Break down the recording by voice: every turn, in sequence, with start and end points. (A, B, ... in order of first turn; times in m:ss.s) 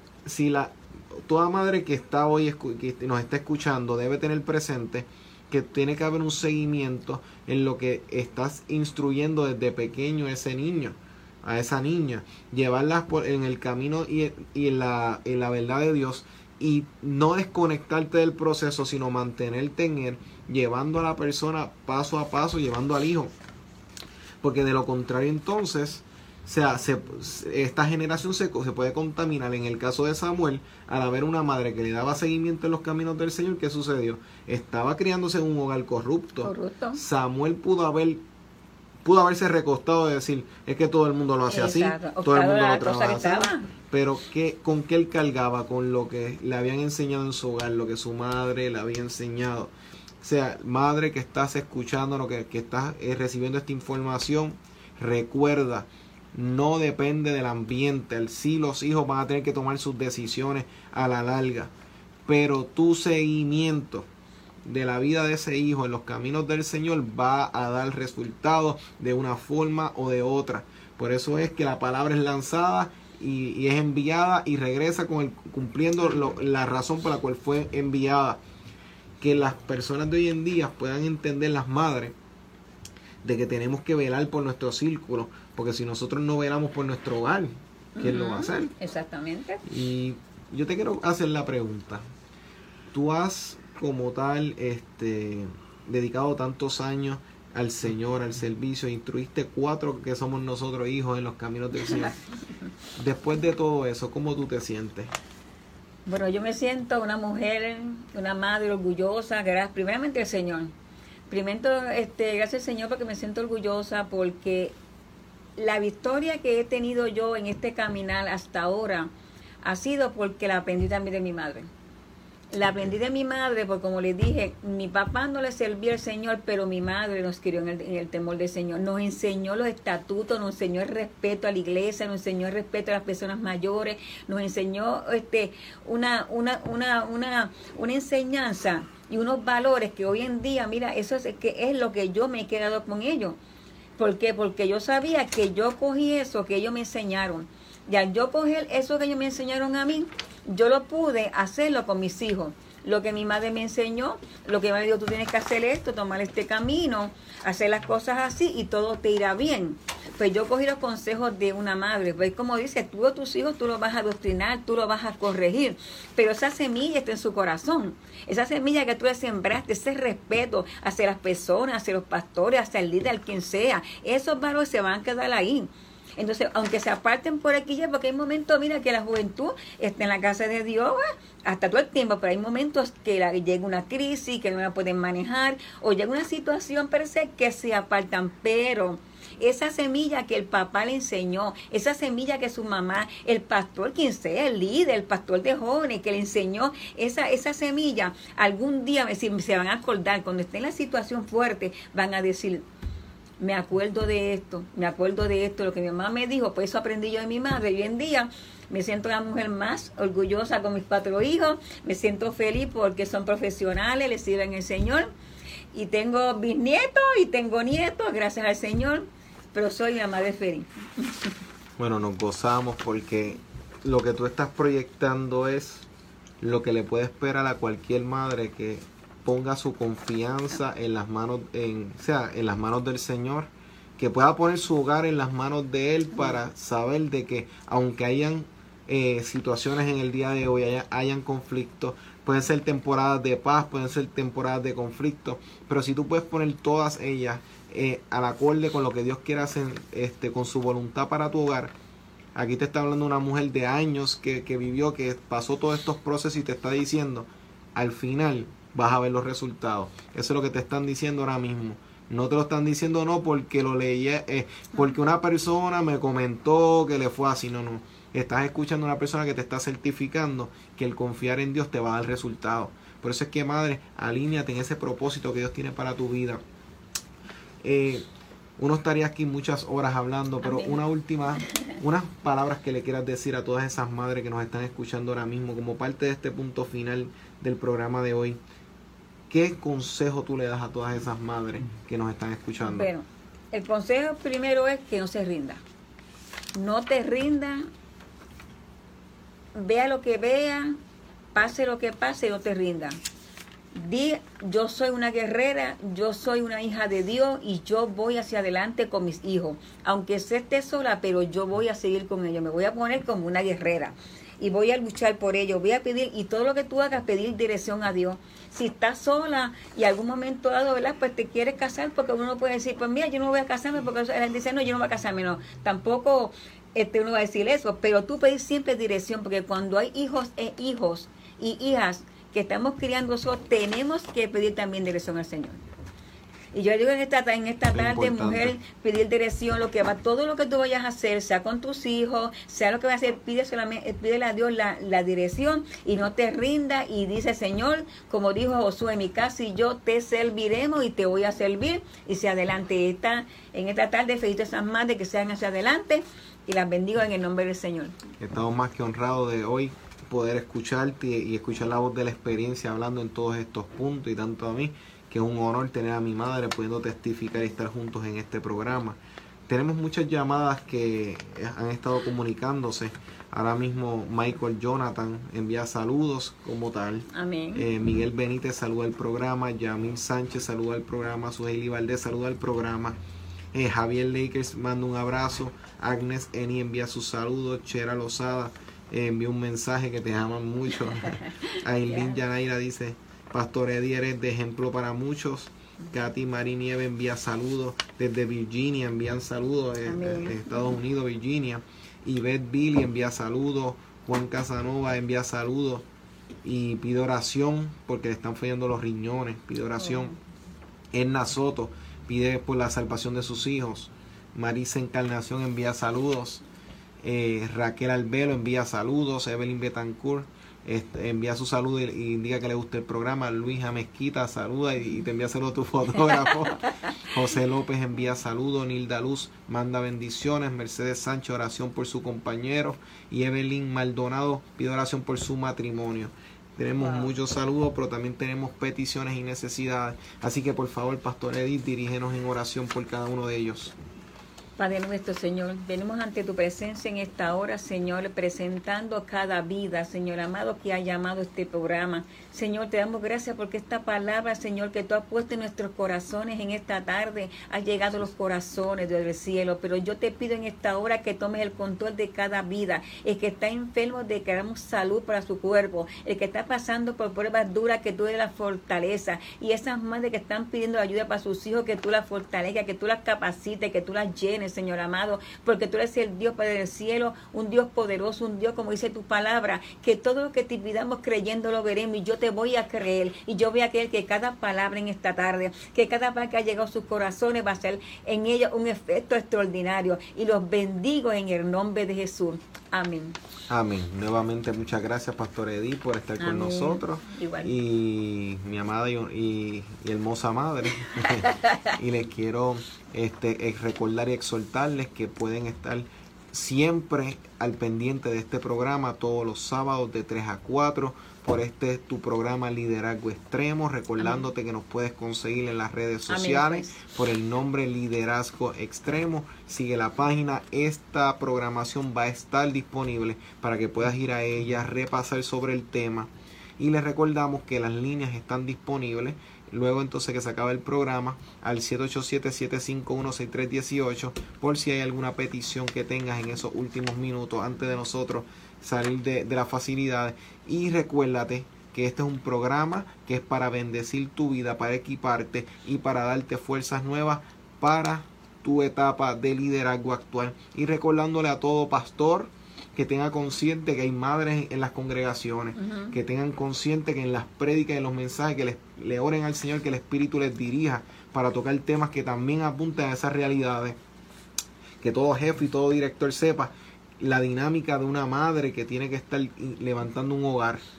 0:00.2-0:23.3 A
0:24.4-0:38.2 A
0:36.4-0:37.0 B
0:39.0-1:01.7 A
0:41.5-0:43.7 B
1:02.3-1:04.1 A
1:04.6-1:18.4 A
1:19.2-1:22.1 A
1:23.2-1:28.7 A
1:28.0-1:29.6 B
1:29.6-1:32.0 A
1:32.9-1:42.2 A
1:41.8-1:42.1 B
1:43.0-1:45.1 A
1:46.0-1:50.7 B
1:51.3-1:54.8 B
1:55.6-1:59.1 B
1:59.6-2:01.7 B
2:02.5-2:23.4 B
2:24.0-3:22.7 B
3:23.4-3:35.1 B
3:35.7-3:41.3 B
3:41.8-3:45.9 A
3:46.4-4:11.7 A
3:56.1-3:56.4 B
4:12.3-4:36.4 A
4:37.6-4:38.0 A
4:38.6-4:48.4 A
4:40.4-4:40.8 B
4:49.3-4:52.9 A
4:52.6-4:55.6 B
4:56.6-4:57.7 B
4:59.5-5:00.8 B
5:01.3-5:03.0 B
5:03.7-5:35.6 B
5:36.5-5:58.0 B
5:37.7-5:38.6 A
5:58.2-6:23.0 A
6:17.1-6:17.7 B
6:23.5-6:45.9 A
6:31.0-6:32.2 B
6:39.9-6:40.7 B
6:46.4-6:50.1 A
6:49.8-6:50.2 B
6:50.9-6:56.4 A
6:57.0-7:23.7 A
7:16.8-7:17.1 B
7:24.6-8:13.2 B
8:13.5-9:23.8 A
8:16.2-8:17.6 B
8:21.2-8:21.6 B
8:34.0-8:34.2 B
8:36.1-8:36.8 B
9:15.6-9:16.0 B
9:24.8-9:30.6 A